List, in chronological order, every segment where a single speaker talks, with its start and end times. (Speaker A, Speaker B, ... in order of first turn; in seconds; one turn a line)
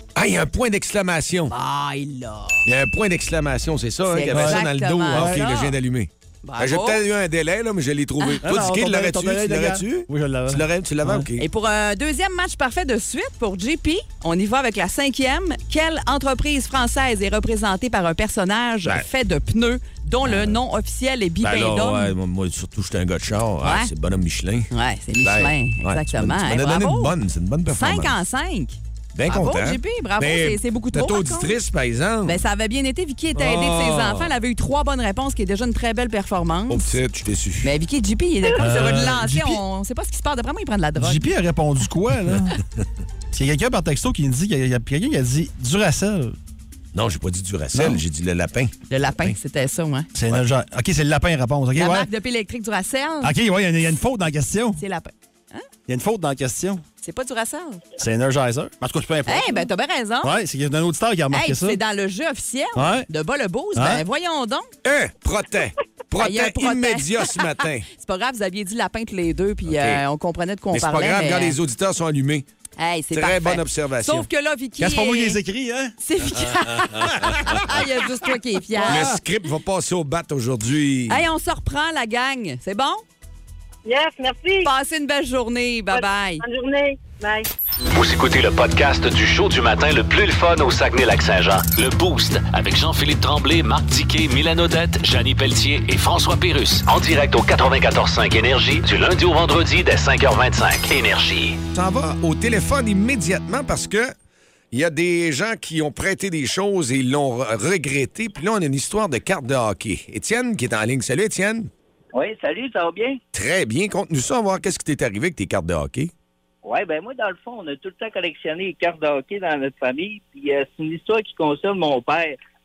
Speaker A: 0.1-1.5
Speaker B: 1.5-2.7
Speaker A: 2.6-11.4
Speaker B: 4.1-5.7
Speaker C: 4.3-5.4
Speaker B: 6.4-7.0
Speaker C: 8.4-11.3
Speaker B: 11.4-22.1
Speaker A: 21.4-24.7
Speaker B: 23.6-23.9
Speaker B: 24.7-27.1
Speaker A: 25.2-28.2
Speaker B: 27.7-31.5
Speaker A: 29.1-32.4
Speaker B: 32.2-36.9
Speaker A: 33.3-34.3
Speaker A: 36.7-37.7
Speaker B: 37.6-41.2
Speaker C: 38.5-39.6
Speaker C: 41.0-42.6
Speaker C: 43.3-46.4
Speaker A: 46.9-49.4
Speaker C: 47.7-48.0
Speaker B: 48.9-50.1
Speaker C: 50.1-52.1
Speaker B: 51.7-53.3
Speaker C: 53.2-54.8
Speaker B: 54.8-55.6
Speaker C: 55.9-56.8
Speaker B: 57.0-57.8
Speaker C: 58.0-59.7
Speaker B: 59.3-60.4
Speaker C: 60.2-61.8
Speaker B: 61.3-64.7
Speaker C: 62.8-63.1
Speaker C: 63.7-64.0
Speaker A: 64.8-67.9
Speaker B: 66.2-67.4
Speaker B: 67.9-71.5
Speaker A: 69.7-70.0
Speaker A: 70.7-72.4
Speaker B: 72.8-75.4
Speaker A: 73.1-74.3
Speaker C: 74.8-75.9
Speaker B: 76.0-79.1
Speaker A: 76.9-77.4
Speaker C: 77.1-77.5
Speaker C: 78.8-79.2
Speaker A: 78.8-81.2
Speaker B: 81.1-83.0
Speaker D: 83.8-84.7
Speaker B: 84.6-86.4
Speaker D: 85.9-87.5
Speaker E: 87.9-101.6
Speaker A: 101.7-104.1
Speaker A: 104.7-111.7
Speaker F: 112.1-113.2
Speaker A: 113.3-116.1
Speaker F: 116.6-122.4